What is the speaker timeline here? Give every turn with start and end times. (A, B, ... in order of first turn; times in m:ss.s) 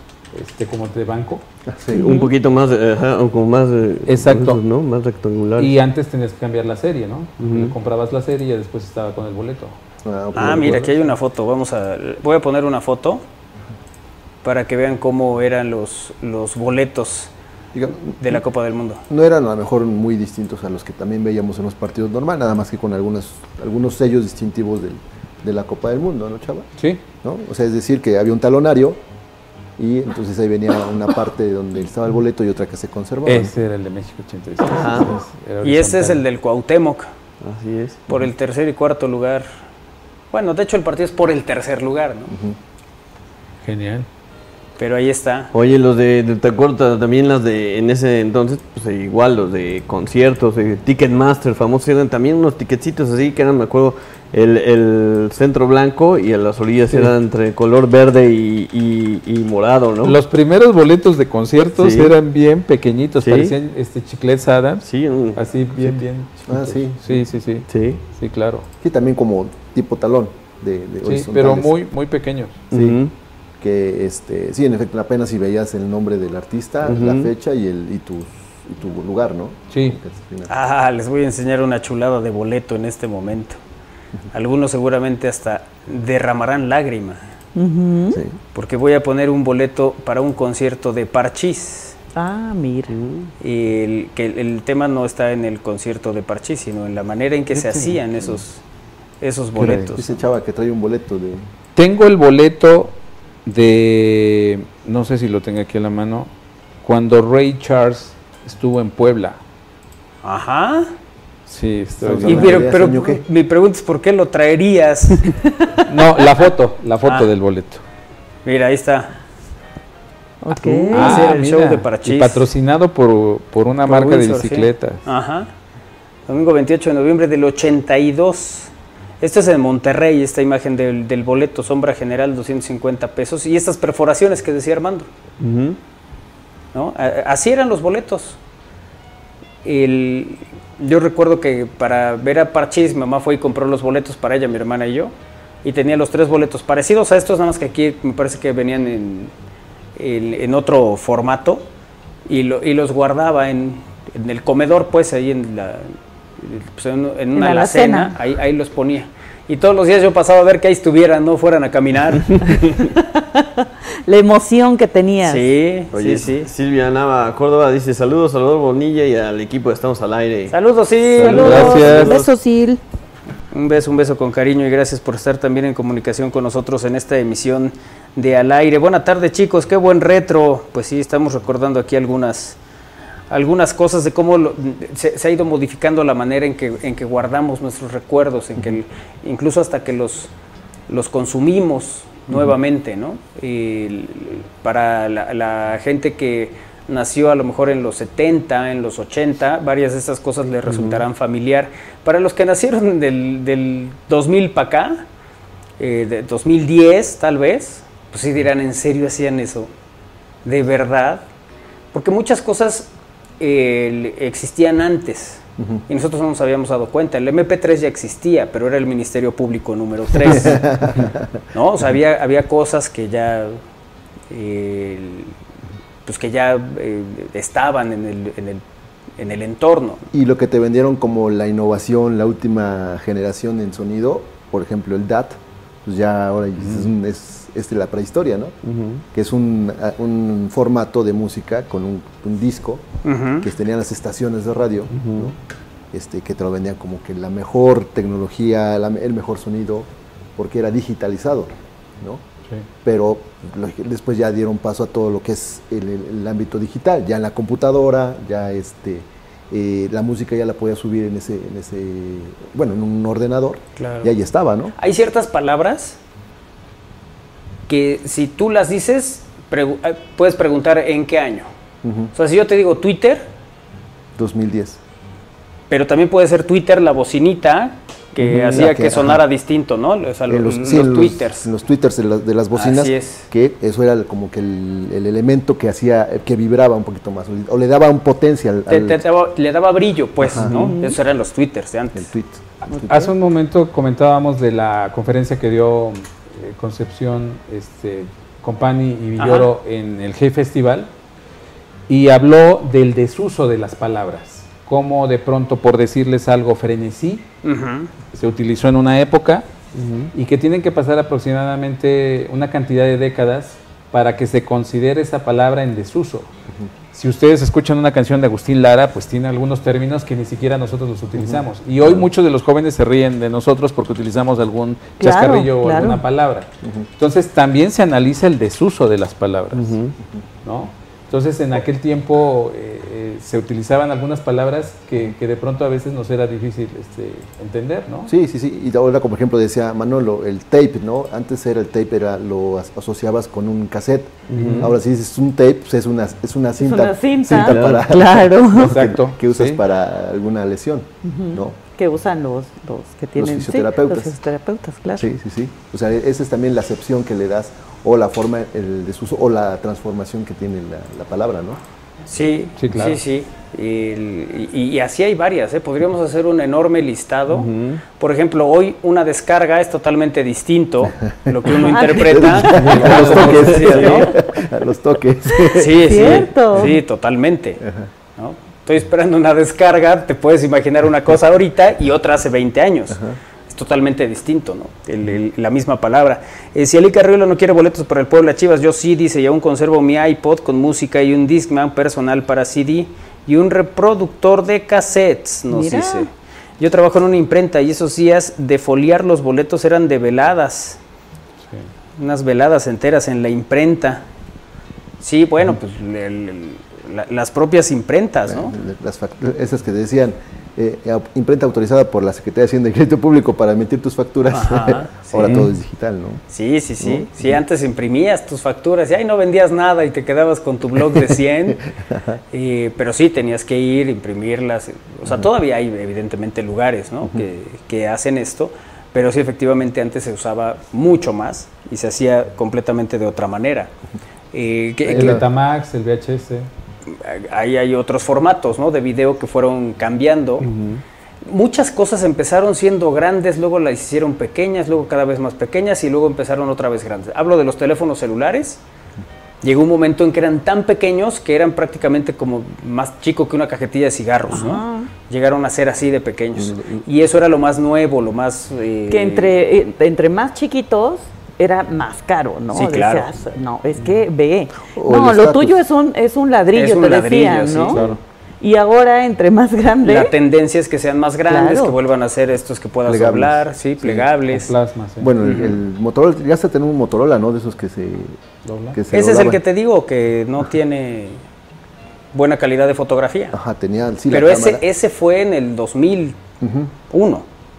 0:00.3-0:01.4 A
0:01.6-0:02.1 B
0:01.9-0:05.7 C
0:01.9-0:02.3 D
0:04.0-0:04.6 A
0:05.6-0:09.8 A
0:07.4-0:07.7 C
0:10.0-0:11.1 B
0:10.3-0:13.2 E
0:14.4-0:17.3 E
0:17.7-0:18.4 B
0:18.2-0:19.0 E
0:19.1-0:26.7 B
0:27.2-0:29.0 B
0:29.8-0:33.5 B
0:33.2-0:36.2 A
0:34.6-0:35.1 C
0:35.6-0:37.1 E
0:37.4-0:38.2 C
0:38.1-0:39.5 E
0:40.3-0:42.3 E
0:42.3-0:42.6 B
0:43.6-0:44.1 A
0:44.8-0:45.5 E
0:45.5-1:00.2 C
1:00.0-1:08.7 A
1:01.8-1:02.1 C
1:03.2-1:03.5 C
1:04.8-1:06.0 C
1:06.5-1:07.0 B
1:07.7-1:08.0 C
1:08.8-1:11.7 B
1:11.0-1:12.6 A
1:12.7-1:13.0 B
1:12.7-1:13.1 C
1:13.6-1:20.5 B
1:16.8-1:17.3 C
1:19.7-1:20.0 A
1:20.5-1:23.6 E
1:24.3-1:27.3 E
1:27.6-1:28.2 D
1:28.1-1:28.4 B
1:28.5-1:32.0 E
1:32.1-1:32.9 D
1:32.9-1:33.3 C
1:33.4-1:38.6 E
1:39.2-1:40.0 E
1:39.6-1:41.4 B
1:41.8-1:46.3 A
1:46.8-1:49.4 A
1:50.2-1:50.9 E
1:51.5-1:52.7 A
1:52.0-1:53.2 B
1:52.2-1:55.4 E
1:55.8-1:57.8 A
1:57.0-1:57.3 E
1:58.4-1:59.1 E
2:00.4-2:01.4 D
2:00.5-2:05.0 A
2:00.9-2:02.5 E
2:03.9-2:05.5 E
2:06.3-2:15.1 E
2:15.4-2:15.8 C
2:16.7-2:18.4 E
2:19.6-2:25.1 E
2:25.6-2:29.3 E
2:30.0-2:31.6 E
2:32.3-2:35.9 E
2:36.4-2:42.8 E
2:37.3-2:38.1 D
2:42.9-2:45.5 D
2:45.2-2:46.5 E
2:45.9-2:50.6 C
2:50.5-2:52.2 E
2:51.2-2:52.8 D
2:51.2-2:52.2 C
2:51.3-2:52.2 A
2:53.5-3:02.6 E
3:03.3-3:10.3 E
3:10.9-3:25.0 E
3:20.7-3:21.0 C
3:25.8-3:29.7 E
3:30.4-3:31.2 E
3:31.9-3:40.6 E
3:40.2-3:41.4 B
3:41.5-3:43.6 E
3:44.3-3:45.3 E
3:46.0-3:48.6 E
3:49.2-3:50.0 E
3:50.1-3:58.6 B
3:56.6-3:56.9 A
3:58.6-3:59.0 C
3:59.1-4:02.8 B
4:03.0-4:03.4 E
4:03.4-4:05.4 B
4:05.0-4:05.3 C
4:05.9-4:12.2 B
4:12.8-4:24.7 B
4:23.8-4:24.1 E
4:24.8-4:26.0 E
4:27.7-4:31.5 E
4:31.8-4:32.1 B
4:32.1-4:33.3 E
4:34.1-4:34.8 B
4:35.7-4:41.5 E
4:38.2-4:39.2 B
4:38.4-4:38.6 C
4:40.3-4:49.0 B
4:42.5-4:43.3 E
4:48.7-4:52.1 E
4:50.2-4:50.7 B
4:50.5-4:51.0 D
4:51.9-4:53.0 B
4:52.6-5:00.9 A
4:52.7-4:53.1 D
4:59.2-4:59.5 E
5:01.9-5:07.3 A
5:07.4-5:07.9 E
5:08.1-5:09.5 A
5:09.7-5:10.1 C
5:10.1-5:16.3 A
5:16.9-5:29.8 A
5:21.2-5:22.0 B
5:25.0-5:26.0 D
5:26.6-5:26.9 B
5:29.5-5:29.9 C
5:30.4-5:38.1 A
5:38.1-5:51.6 B
5:44.3-5:44.7 C
5:46.6-5:48.9 D
5:47.3-5:47.8 C
5:48.5-5:49.6 A
5:51.0-5:55.1 D
5:53.2-5:54.2 B
5:55.0-6:01.6 B
6:02.1-6:14.1 E
6:02.6-6:03.0 A
6:07.3-6:07.8 C
6:11.2-6:16.3 B
6:11.6-6:14.1 D
6:12.5-6:13.6 C
6:12.7-6:13.6 A
6:15.4-6:16.8 D
6:15.5-6:17.6 E
6:17.6-6:17.9 B
6:18.2-6:40.8 E
6:22.9-6:23.2 B
6:35.5-6:36.1 D
6:41.4-6:41.7 A
6:42.0-6:44.0 E
6:45.0-6:48.5 E
6:48.3-6:56.2 B
6:54.2-6:55.3 E
6:55.2-6:55.5 C
6:56.3-7:01.6 E
6:56.8-6:57.1 B
7:01.7-7:02.2 B
7:02.3-7:13.7 E
7:14.3-7:15.2 E
7:14.8-7:15.2 B
7:14.9-7:16.5 A
7:16.9-7:20.4 E
7:20.4-7:20.8 C
7:21.2-7:28.6 E
7:29.4-7:39.3 E
7:34.3-7:34.9 D
7:36.4-7:36.8 B
7:38.9-7:47.8 D
7:42.5-7:43.1 E
7:44.7-7:45.6 B
7:46.5-7:47.8 E
7:47.7-7:48.0 A
7:48.4-7:50.1 D
7:49.8-7:54.5 E
7:51.3-7:51.8 D
7:52.8-7:54.1 B
7:54.3-7:55.1 A
7:55.0-7:58.2 B
7:55.2-7:55.6 E
7:58.4-7:58.8 A
7:58.7-7:59.4 B
7:58.9-8:01.2 E
8:02.1-8:03.4 E
8:03.3-8:04.6 B
8:04.1-8:06.2 E
8:06.4-8:06.7 B
8:06.9-8:07.2 E